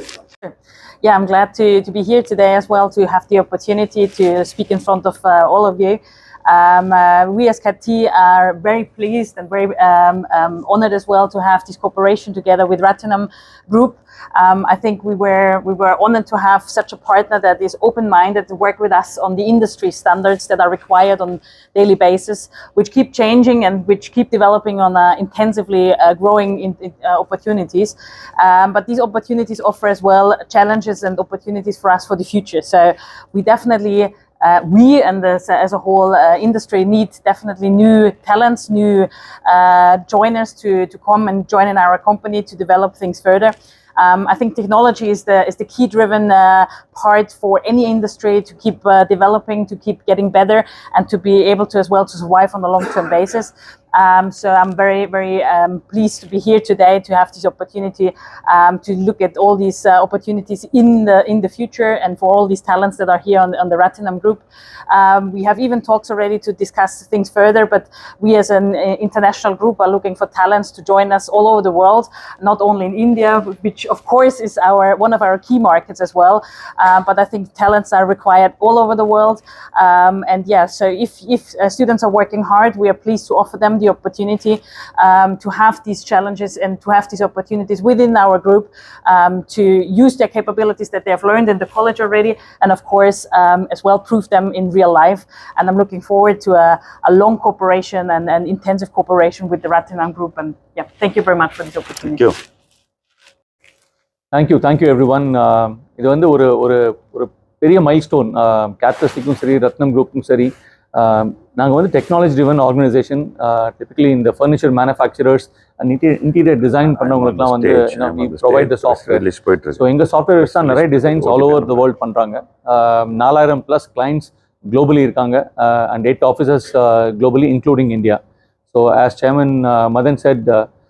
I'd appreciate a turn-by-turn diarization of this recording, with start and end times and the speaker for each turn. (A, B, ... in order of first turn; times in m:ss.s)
0:00.4-1:42.3 A
1:44.3-1:59.2 B
1:56.9-1:59.9 C
1:59.8-2:08.2 B
2:00.4-2:01.8 C
2:08.7-2:10.7 B